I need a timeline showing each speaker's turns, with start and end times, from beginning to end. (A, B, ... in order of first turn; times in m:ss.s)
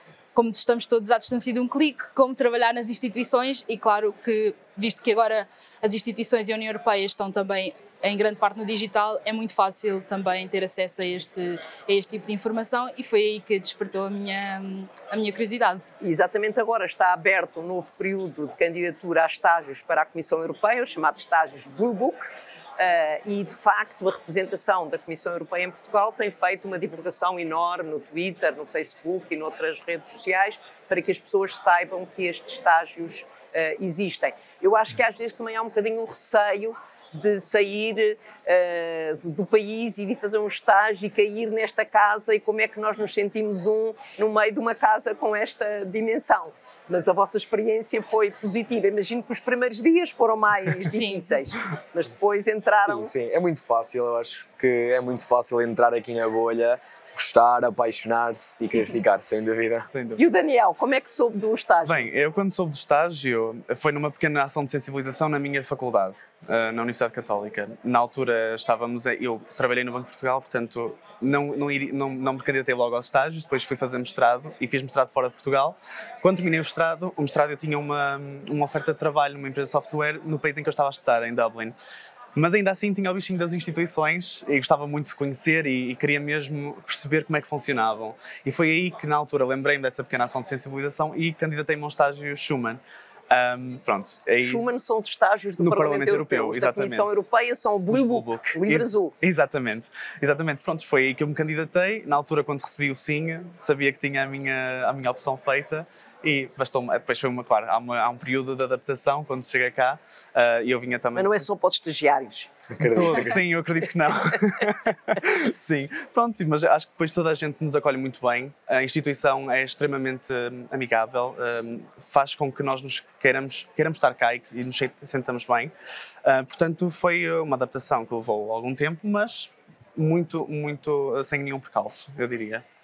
0:00.3-0:15.8 A
0:16.0-0:53.1 B
0:50.9-0:51.4 A
0:52.8-0:59.9 C
0:59.9-1:00.2 D
1:00.2-1:02.1 B
1:01.8-1:21.7 D
1:22.4-1:34.6 D
1:34.4-1:39.1 B
1:35.6-1:37.2 D
1:37.9-1:51.4 D
1:51.2-1:52.5 B
1:52.7-1:53.4 C
1:52.8-2:05.7 D
2:06.2-2:12.6 D